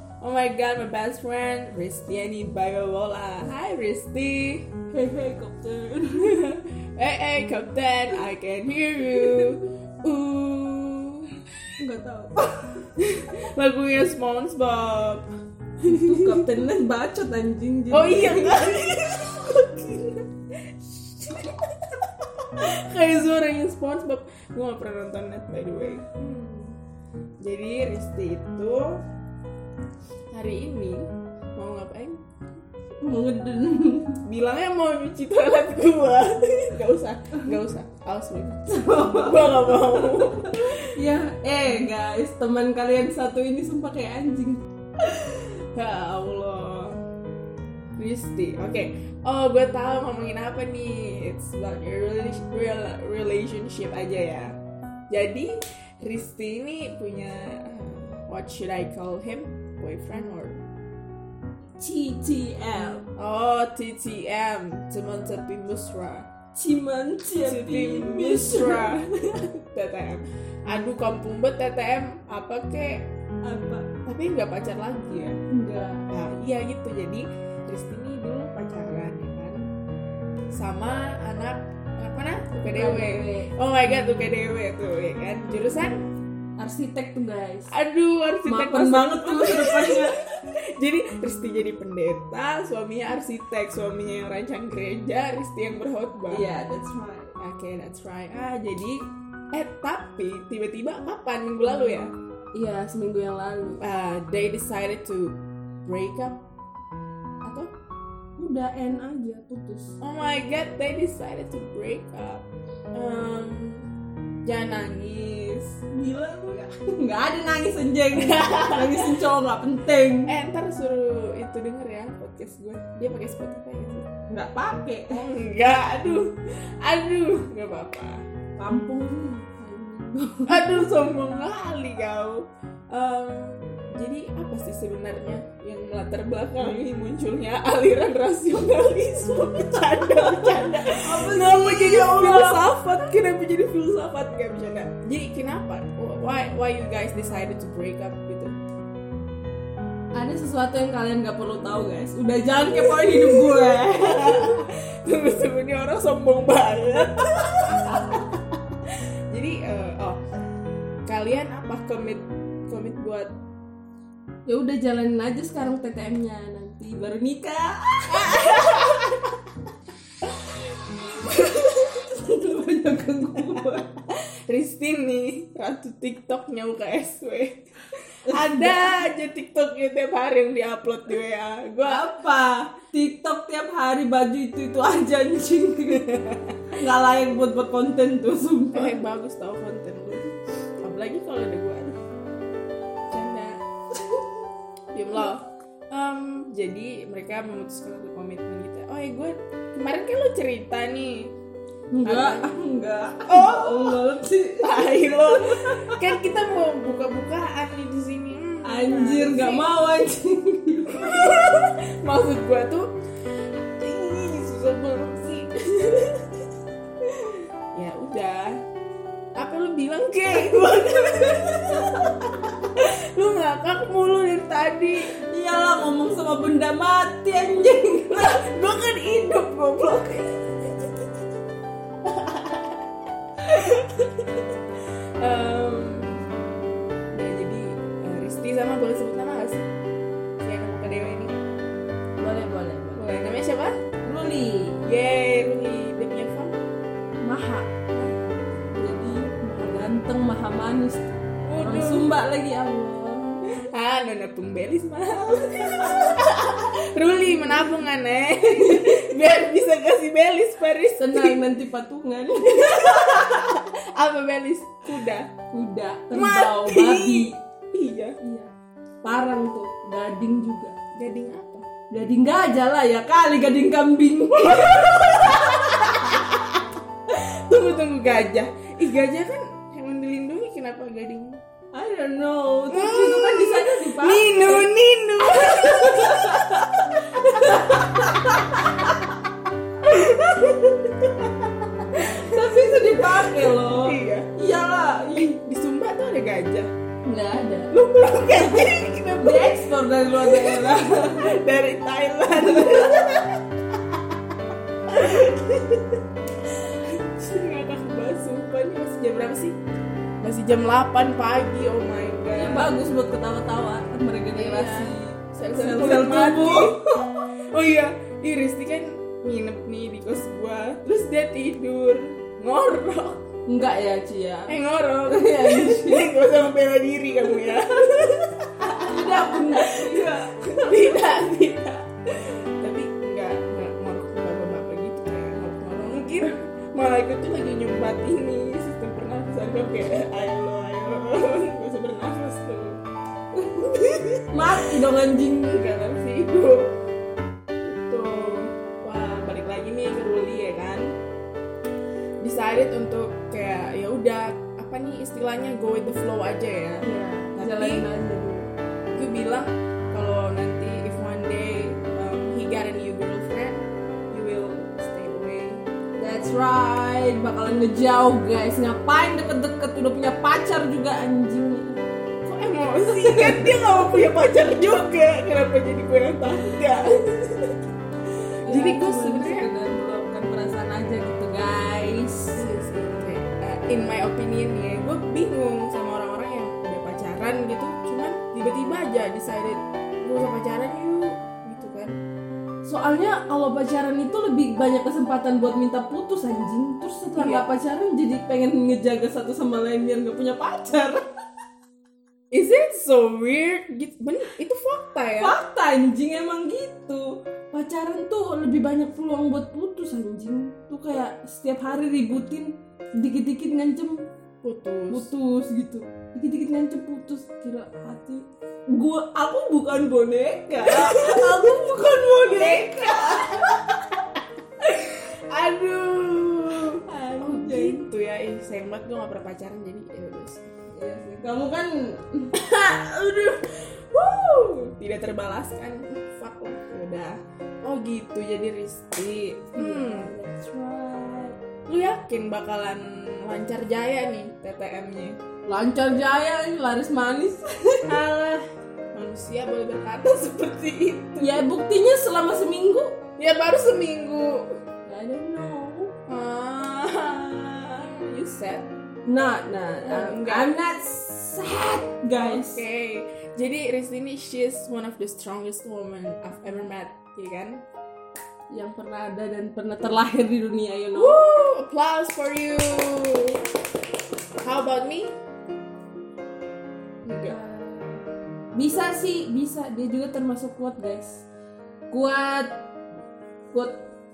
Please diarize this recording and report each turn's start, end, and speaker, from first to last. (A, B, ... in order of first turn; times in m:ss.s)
0:00.2-0:04.7 A
0:04.9-0:06.5 B
0:06.2-0:11.3 A
0:09.1-0:09.6 B
0:11.8-0:12.9 B
0:13.0-0:15.2 A
0:15.8-0:16.5 A
0:15.8-0:18.9 B
0:17.9-0:26.1 A
0:26.0-0:26.7 B
0:27.4-0:29.0 A
0:30.3-0:32.2 A
0:33.0-0:34.2 B
0:34.2-0:40.9 A
0:38.7-0:44.6 B
0:45.0-0:47.0 A
0:48.0-0:54.6 A
0:55.1-1:00.6 A
1:01.8-1:03.0 B
1:03.2-1:06.2 A
1:06.5-1:09.0 B
1:07.4-1:13.0 A
1:13.4-1:13.9 B
1:14.0-1:15.4 A
1:15.5-1:16.0 B
1:16.1-1:19.6 A
1:20.5-1:26.0 A
1:22.6-1:23.5 B
1:26.6-1:27.7 B
1:27.7-1:36.4 A
1:28.4-1:30.2 B
1:36.3-1:37.4 B
1:37.4-1:42.1 A
1:42.5-1:43.8 B
1:43.8-1:46.4 A
1:47.4-1:47.7 A
1:48.4-1:50.0 B
1:50.0-1:53.9 A
1:54.4-1:55.8 A
1:55.9-2:00.3 B
1:58.1-1:59.1 A
2:00.3-2:04.1 A
2:04.3-2:05.2 B
2:05.1-2:08.2 A
2:08.6-2:10.9 B
2:10.5-2:28.5 A
2:20.2-2:22.7 B
2:30.1-2:34.6 B
2:32.6-2:38.5 A
2:39.3-2:40.2 A
2:41.1-2:43.3 A
2:44.5-2:49.1 B
2:48.1-2:49.3 A
2:51.1-2:53.9 B
2:53.4-2:53.8 A
2:54.5-2:57.6 A
2:58.3-2:59.0 B
2:58.3-3:02.2 A
3:01.8-3:06.1 B
3:05.9-3:06.7 A
3:06.7-3:09.0 B
3:08.7-3:12.0 A
3:13.1-3:13.6 A
3:13.9-3:14.3 B
3:14.9-3:21.3 A
3:21.9-3:26.0 B
3:22.0-3:22.6 A
3:23.2-3:24.0 A
3:24.6-3:29.7 A
3:28.6-3:31.4 B
3:30.9-3:32.9 A
3:33.8-3:36.3 A
3:37.2-3:38.6 A
3:39.4-3:45.1 A
3:41.1-3:41.9 B
3:45.2-3:48.4 B
3:48.1-3:51.1 A
3:52.0-3:52.8 A
3:53.4-3:54.3 A
3:55.2-3:56.2 A
3:57.1-3:59.6 A
4:00.4-4:01.4 A
4:02.2-4:03.0 B
4:03.0-4:03.8 A
4:04.0-4:04.8 B
4:04.8-4:06.6 A
4:07.2-4:08.1 B
4:08.7-4:13.4 B
4:11.4-4:12.1 A
4:13.6-4:21.4 A
4:17.3-4:17.8 B
4:18.5-4:19.1 B
4:21.0-4:23.5 B
4:22.4-4:25.3 A
4:25.5-4:27.3 B
4:26.1-4:28.2 A
4:28.2-4:28.5 B
4:29.0-4:30.7 B
4:30.9-4:31.7 A
4:31.9-4:36.2 B
4:34.4-4:41.4 A
4:41.7-4:44.7 B
4:42.7-4:49.0 A
4:45.3-4:49.0 B
4:49.8-4:54.3 A
4:51.9-4:55.3 B
4:55.1-4:56.7 A
4:57.0-5:01.3 B
4:57.7-5:04.3 A
5:02.3-5:03.0 B
5:04.9-5:09.6 A
5:10.2-5:12.7 A
5:12.3-5:16.8 B
5:14.3-5:23.2 A
5:23.5-5:24.6 B
5:24.5-5:42.8 A
5:25.1-5:26.1 B
5:28.6-5:31.0 B
5:43.3-5:45.6 B
5:43.6-5:44.7 A
5:45.5-5:46.7 A
5:47.6-5:50.9 A
5:52.2-5:56.8 A
5:56.8-5:58.5 B
5:57.4-5:57.8 A
5:58.9-6:05.6 A
6:06.0-6:11.8 B
6:12.2-6:17.6 A
6:12.9-6:14.1 B
6:16.4-6:16.8 B
6:18.2-6:19.5 A
6:18.4-6:22.4 B
6:22.3-6:31.9 A
6:32.6-6:41.0 B
6:37.2-6:37.4 A
6:42.3-6:45.4 A
6:45.2-6:54.0 B
6:54.4-6:55.1 A
6:54.9-7:03.4 B
7:00.6-7:01.5 A
7:02.3-7:03.8 A
7:04.6-7:10.4 A
7:06.8-7:07.8 B
7:10.7-7:12.3 B
7:12.3-7:20.1 A
7:19.5-7:21.4 B
7:21.7-7:25.2 A
7:25.4-7:27.9 B
7:27.9-7:31.4 A
7:31.2-7:33.0 B
7:33.2-7:34.5 A
7:34.8-7:36.0 B
7:36.1-7:38.7 A
7:39.0-7:42.6 B
7:39.8-7:40.5 A
7:42.1-7:47.6 A
7:48.5-7:51.2 B
7:50.9-7:53.4 A
7:54.4-7:55.1 A
7:57.0-7:57.4 A
7:57.2-8:01.2 B
8:01.9-8:02.6 B
8:03.5-8:03.8 B